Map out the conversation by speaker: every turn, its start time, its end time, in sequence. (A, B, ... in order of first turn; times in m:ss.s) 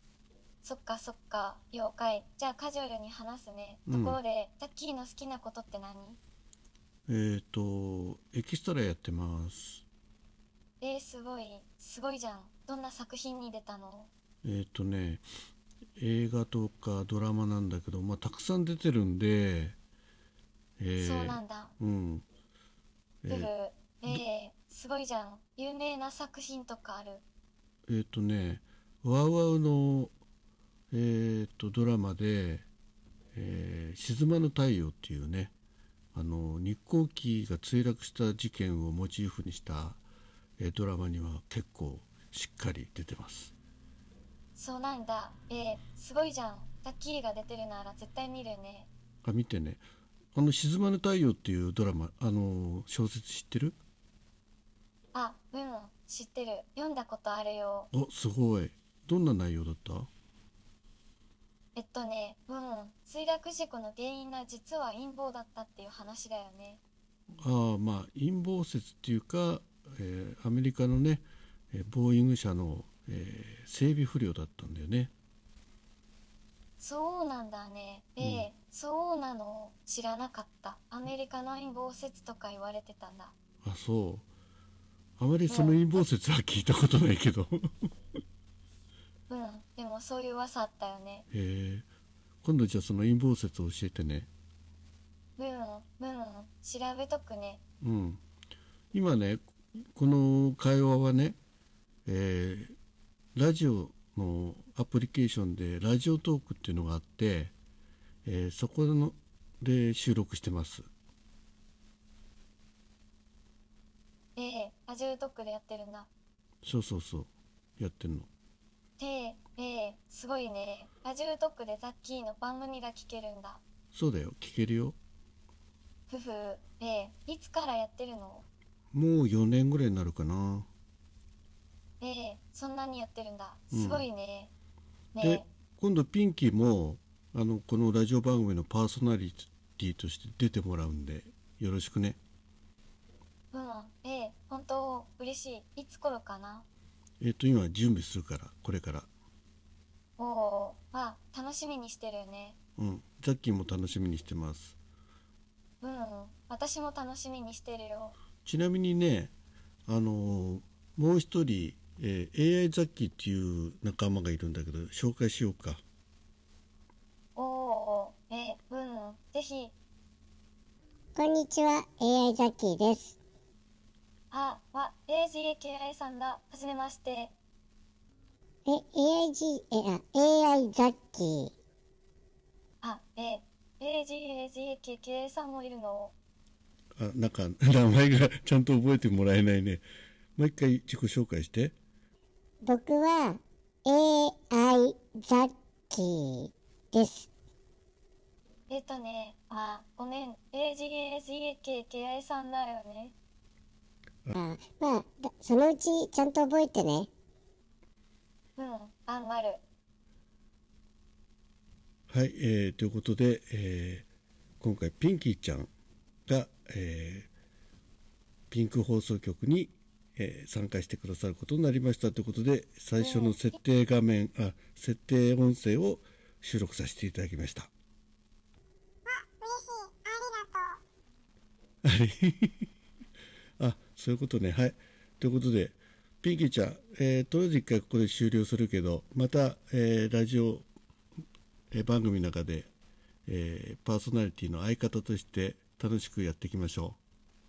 0:00.6-0:06.2 A
0:03.9-0:04.2 B
0:07.1-0:09.8 B
0:10.8-0:14.1 A
0:14.4-0:15.3 B
0:16.0-0:19.8 B
0:20.8-0:22.3 B
0:21.0-0:21.7 A
0:23.2-0:23.5 B
0:23.3-0:27.2 A
0:27.9-0:30.1 B
0:30.9-0:32.7 B
0:33.3-0:35.5 B
0:36.1-0:40.0 B
0:40.6-0:43.5 B
0:44.6-0:48.9 A
0:49.2-0:53.8 B
0:55.1-0:57.9 A
0:57.9-1:00.1 B
1:01.8-1:06.8 A
1:07.4-1:15.1 B
1:16.8-1:23.4 A
1:18.2-1:18.5 B
1:23.6-1:24.3 B
1:25.2-1:27.9 B
1:25.5-1:26.0 A
1:29.3-1:31.3 A
1:31.3-1:31.9 B
1:32.4-1:34.3 B
1:35.4-1:37.6 A
1:37.8-1:38.2 B
1:38.9-1:41.4 B
1:42.1-1:42.8 B
1:43.4-1:47.5 B
1:48.2-1:50.9 B
1:54.4-1:56.1 A
1:56.6-1:58.3 B
1:59.0-2:03.6 A
2:03.9-2:05.0 B
2:06.1-2:08.5 A
2:08.9-2:10.7 B
2:12.0-2:14.5 A
2:13.7-2:14.1 B
2:15.1-2:15.5 A
2:15.2-2:22.2 B
2:23.5-2:26.7 A
2:27.2-2:29.1 B
2:30.2-2:32.6 A
2:32.8-2:34.8 B
2:35.8-2:38.2 A
2:38.4-2:39.3 B
2:39.9-2:45.8 B
2:47.4-2:49.7 A
2:51.2-2:53.2 C
2:54.3-2:57.4 A
2:58.7-3:01.5 C
3:02.8-3:06.1 A
3:07.0-3:09.8 B
3:10.4-3:11.8 B
3:12.6-3:17.3 C
3:18.7-3:23.2 A
3:24.3-3:27.1 C
3:28.6-3:29.6 A
3:32.1-3:34.1 B
3:34.6-3:35.7 B
3:36.3-3:37.3 B
3:38.5-3:47.7 B
3:49.2-3:50.8 C
3:51.8-3:52.7 B
3:53.6-4:00.7 B
4:01.7-4:02.7 B
4:03.3-4:07.0 B